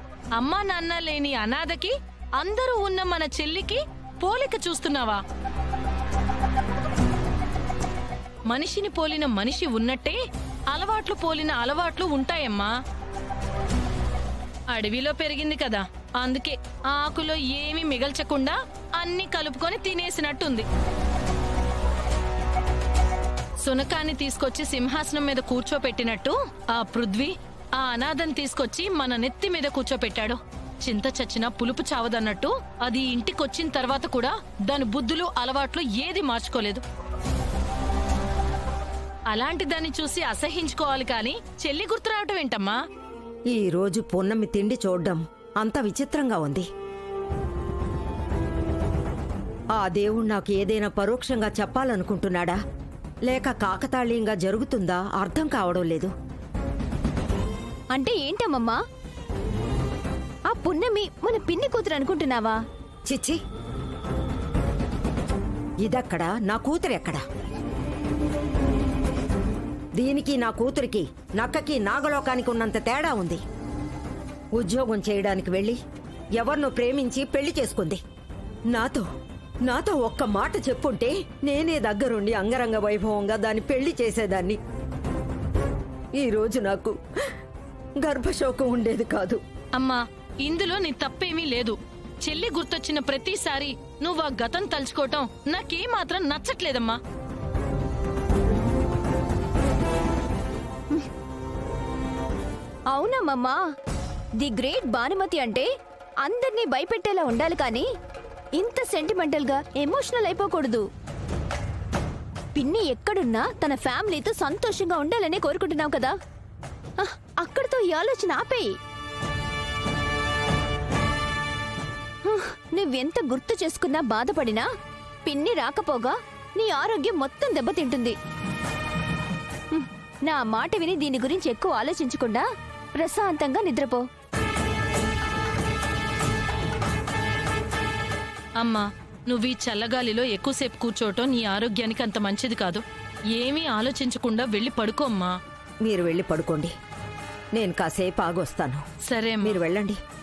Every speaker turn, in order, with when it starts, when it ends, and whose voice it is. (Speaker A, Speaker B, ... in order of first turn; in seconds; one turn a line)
Speaker A: 0.3-5.2
Speaker A: 8.5-10.2
Speaker A: 10.7-12.7
Speaker A: 14.7-20.6
Speaker A: 23.6-36.8
Speaker A: 39.3-42.8
Speaker B: 43.5-46.6
Speaker B: 49.7-52.6
Speaker B: 53.2-56.1
Speaker C: 57.9-58.8
Speaker C: 60.5-62.6
Speaker B: 63.0-63.4
Speaker B: 65.8-67.2
Speaker B: 70.0-73.4
Speaker B: 74.5-75.8
Speaker B: 76.4-78.0
Speaker B: 78.7-79.0
Speaker B: 79.6-84.6
Speaker B: 86.2-87.0
Speaker B: 88.0-89.4
Speaker A: 89.8-97.0
Speaker C: 102.9-103.6
Speaker C: 104.4-105.7
Speaker C: 106.2-107.8
Speaker C: 108.6-110.8
Speaker C: 112.5-116.1
Speaker C: 117.0-118.7
Speaker C: 122.2-124.7
Speaker C: 125.2-128.1
Speaker C: 129.7-132.4
Speaker C: 133.0-134.0
Speaker A: 138.6-142.8
Speaker A: 143.3-145.3
Speaker B: 145.8-146.7
Speaker B: 147.5-148.8
Speaker A: 149.0-149.6
Speaker B: 149.4-150.0